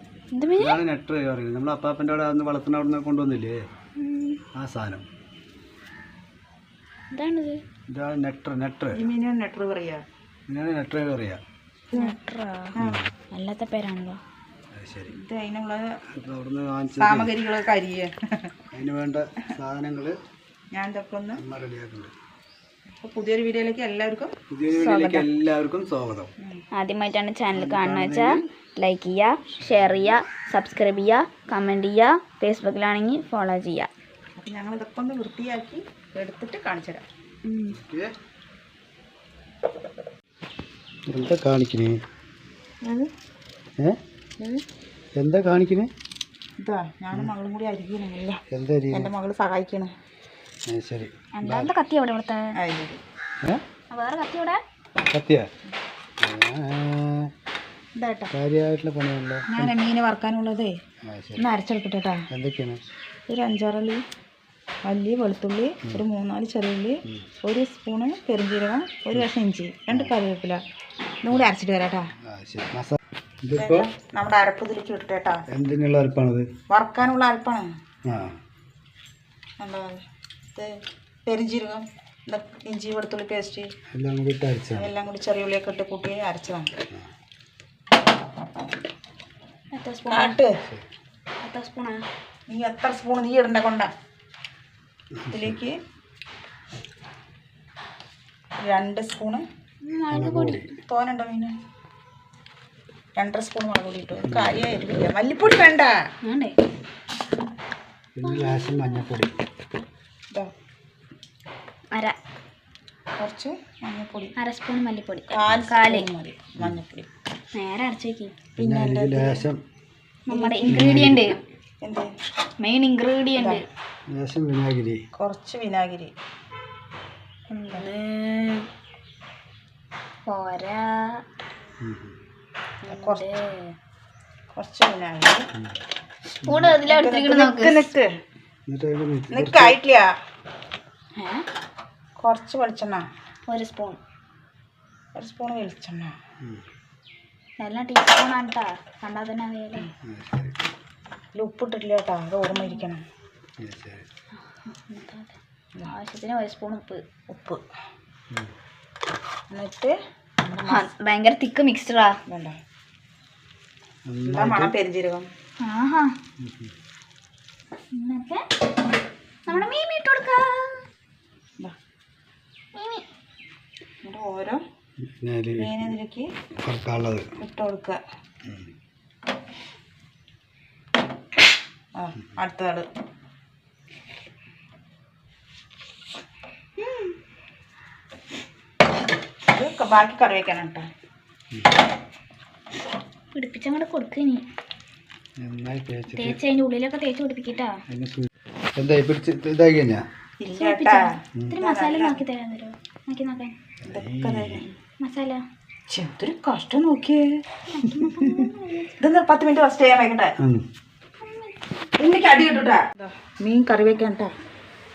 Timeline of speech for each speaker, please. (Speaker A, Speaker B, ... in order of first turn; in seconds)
Speaker A: 0.3-0.8, 4.0-4.4, 7.1-7.6, 11.9-12.7, 13.3-14.2, 24.7-25.2, 26.7-33.9, 37.5-37.8, 51.4-52.5, 53.9-54.6, 89.7-90.3, 91.4-92.0, 99.8-100.7, 106.2-106.5, 108.2-109.0, 114.4-116.0, 117.5-118.3, 120.3-121.4, 122.6-123.6, 127.7-128.7, 130.3-131.2, 132.9-133.7, 136.3-137.8, 141.2-141.4, 143.5-144.0, 147.6-149.9, 152.5-152.8, 154.5-155.3, 155.8-157.0, 160.7-162.1, 165.6-166.1, 167.9-168.4, 169.5-170.8, 172.7-173.0, 193.3-194.4, 196.2-197.8, 200.6-203.5, 205.0-205.4, 207.7-208.9, 211.2-211.5
Speaker B: 0.6-3.7, 4.5-5.0, 7.9-9.0, 10.5-11.4, 14.7-15.1, 16.1-17.3, 18.7-20.2, 21.3-22.1, 24.5-26.3, 27.5-28.4, 29.6-30.1, 37.7-38.1, 41.1-42.0, 45.2-45.9, 48.5-49.1, 50.7-51.7, 55.1-55.5, 56.2-57.3, 58.3-59.7, 61.0-61.5, 62.3-62.8, 72.2-73.9, 75.5-76.5, 78.0-78.4, 83.9-84.9, 95.2-95.5, 100.1-100.7, 104.2-104.6, 108.1-109.3, 118.6-119.6, 120.7-121.3, 124.1-125.0, 131.8-132.2, 136.4-136.8, 138.7-139.7, 150.0-150.6, 153.6-154.0, 164.1-164.7, 166.4-166.7, 175.0-175.8, 176.6-177.3, 178.4-178.7, 195.4-196.4, 197.9-200.0, 203.8-204.6
Speaker C: 8.9-10.0, 12.8-13.0, 15.1-15.9, 17.0-18.1, 20.7-21.4, 23.0-24.3, 34.4-37.0, 42.8-43.1, 46.6-48.4, 48.9-49.9, 52.6-53.0, 58.0-58.3, 59.5-60.7, 61.4-62.2, 63.3-64.0, 64.8-70.6, 71.2-72.1, 73.5-75.4, 76.7-77.6, 79.6-80.0, 81.3-83.7, 84.8-86.7, 90.1-90.6, 92.5-93.9, 95.3-95.8, 98.6-99.4, 100.8-101.5, 103.2-105.9, 113.2-114.3, 115.3-117.1, 118.6-119.5, 120.3-121.0, 121.8-122.1, 123.3-123.6, 125.2-126.1, 127.5-127.9, 132.8-133.3, 134.6-135.4, 136.8-138.1, 139.3-140.1, 142.2-143.0, 145.2-146.1, 151.3-153.0, 157.3-157.6, 159.5-160.8, 162.3-162.6, 164.3-165.3, 174.0-174.6, 175.6-176.3, 177.4-178.0, 181.9-182.8, 186.8-187.1, 189.5-190.9, 200.4-202.2, 203.8-204.7, 205.9-207.3, 209.0-210.3, 212.0-214.3